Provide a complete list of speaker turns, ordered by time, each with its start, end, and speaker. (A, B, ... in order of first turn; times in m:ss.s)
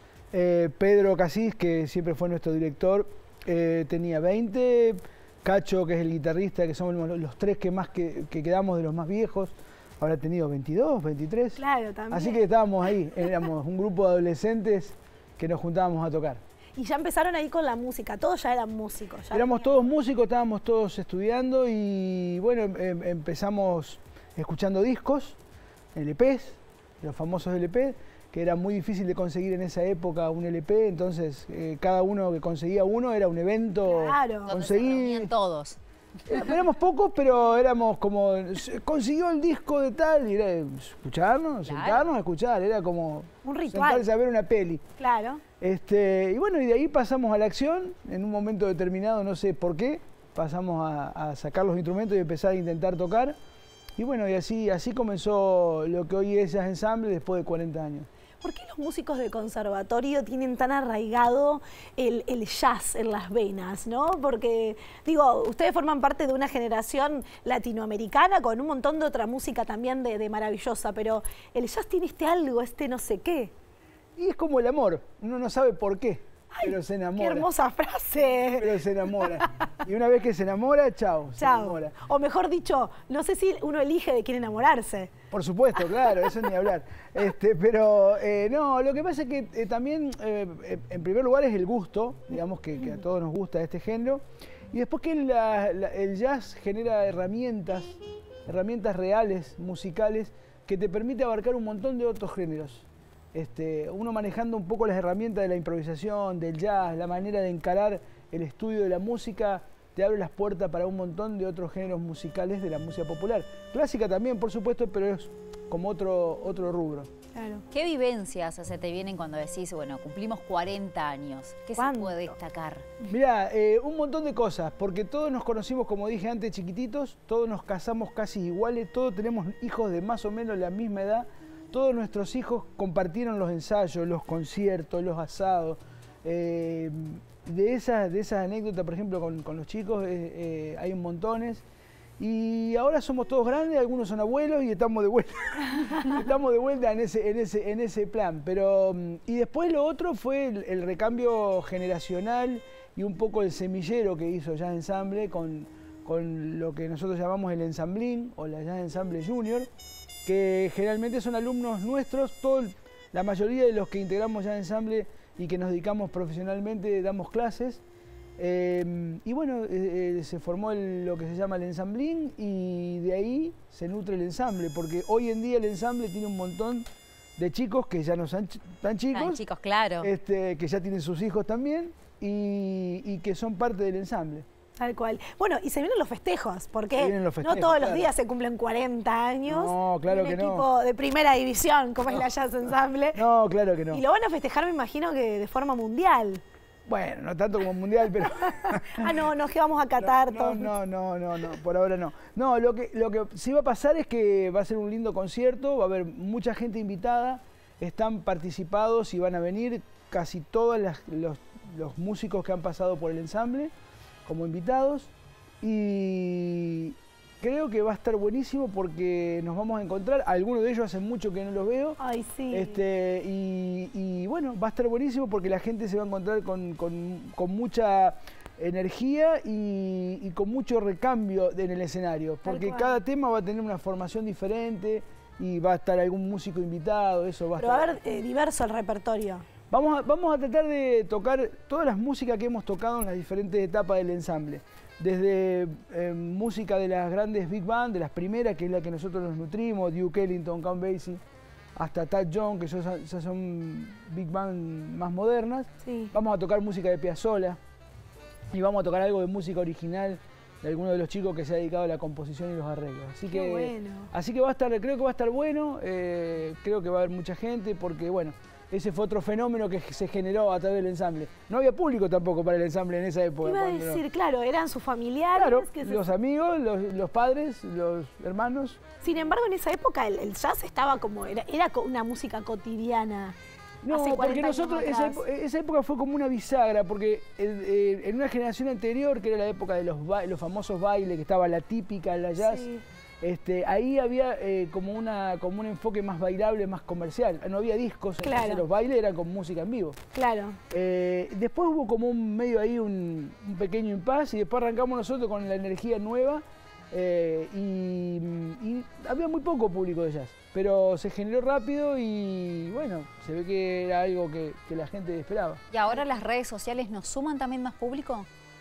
0:00.3-0:11.6 A
0:11.6-0:12.5 B
0:12.1-0:16.4 A
0:16.8-0:19.7 B
0:19.3-0:25.4 A
0:26.0-0:35.3 A
0:33.8-0:34.5 B
0:34.5-0:35.8 C
0:36.3-0:44.8 A
0:41.7-0:42.1 C
0:43.4-0:44.1 B
0:45.0-0:45.4 B
0:45.6-0:53.4 A
0:54.0-0:58.1 A
0:58.4-1:13.5 B
1:14.2-1:17.5 A
1:16.5-1:19.6 B
1:18.6-1:22.0 A
1:21.4-1:25.1 B
1:25.3-1:57.1 A
1:57.4-1:57.6 B
1:57.7-2:02.9 C
2:01.8-2:02.3 B
2:03.0-2:21.6 A
2:22.2-2:39.7 A
2:40.3-2:47.8 A
2:48.4-2:56.8 A
2:57.4-2:59.4 A
2:59.1-3:00.1 C
3:00.0-3:04.4 A
3:04.8-3:13.2 B
3:07.0-3:08.1 A
3:09.5-3:10.7 A
3:13.2-3:14.0 A
3:13.9-3:16.4 B
3:16.9-3:19.2 A
3:18.6-3:20.7 B
3:20.0-3:33.7 A
3:34.2-3:42.0 A
3:42.0-3:42.8 B
3:42.5-3:58.0 A
3:52.4-3:53.0 B
3:57.6-3:59.4 B
3:59.7-4:11.2 A
4:11.8-4:17.6 A
4:15.8-4:16.1 B
4:18.5-4:34.0 A
4:23.3-4:24.1 B
4:33.4-4:36.1 B
4:35.4-4:38.8 A
4:39.0-4:43.4 B
4:43.8-4:52.7 A
4:43.9-4:45.2 B
4:52.4-4:52.8 B
4:53.2-5:00.0 A
4:58.2-4:58.6 B
5:00.1-5:00.6 B
5:00.7-5:15.6 A
5:15.7-5:18.3 C